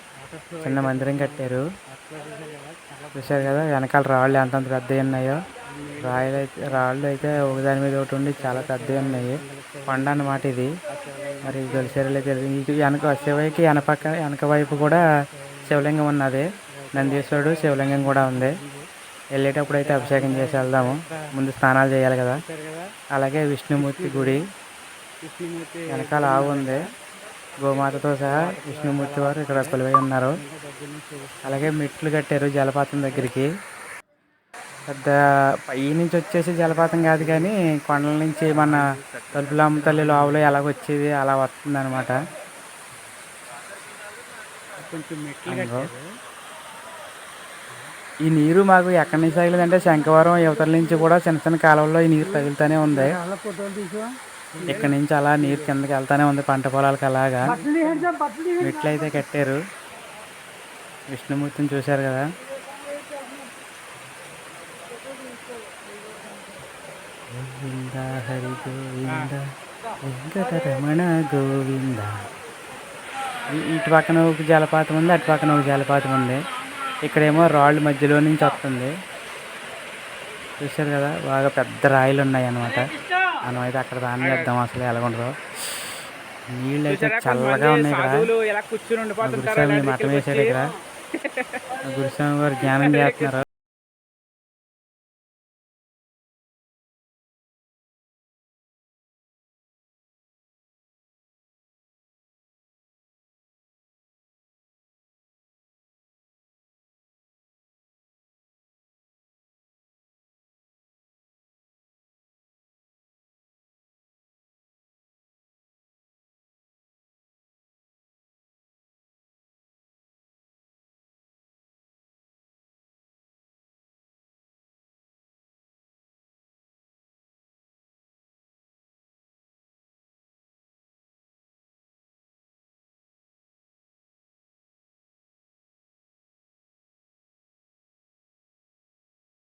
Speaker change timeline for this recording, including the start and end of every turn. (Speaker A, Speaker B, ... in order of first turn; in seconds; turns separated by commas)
Speaker A: 0.2-3.7, Speaker B: 0.6-1.7, Speaker B: 3.1-5.4, Speaker A: 5.7-7.6, Speaker B: 6.0-10.7, Speaker A: 8.4-10.4, Speaker A: 10.9-12.2, Speaker B: 11.4-15.1, Speaker A: 14.9-15.5, Speaker B: 15.7-18.6, Speaker A: 16.8-18.9, Speaker B: 19.4-22.4, Speaker A: 19.7-21.3, Speaker A: 22.4-22.9, Speaker B: 23.1-24.4, Speaker A: 23.8-24.4, Speaker A: 25.2-26.9, Speaker B: 25.9-26.8, Speaker B: 27.6-30.4, Speaker A: 28.2-29.8, Speaker A: 30.4-31.7, Speaker B: 31.4-33.5, Speaker B: 34.9-38.8, Speaker A: 36.9-37.5, Speaker A: 38.5-40.4, Speaker B: 39.3-42.2, Speaker A: 44.7-46.2, Speaker B: 45.5-45.9, Speaker B: 48.2-53.2, Speaker A: 53.2-55.7, Speaker B: 54.6-57.6, Speaker A: 57.6-58.5, Speaker B: 58.6-59.6, Speaker B: 61.1-62.2, Speaker B: 67.3-69.5, Speaker B: 70.0-72.1, Speaker B: 73.4-76.4, Speaker B: 77.0-78.9, Speaker B: 80.6-85.9, Speaker B: 86.5-88.3, Speaker A: 86.9-90.6, Speaker B: 89.2-90.7, Speaker A: 91.2-91.7, Speaker B: 91.8-93.5, Speaker A: 92.7-93.1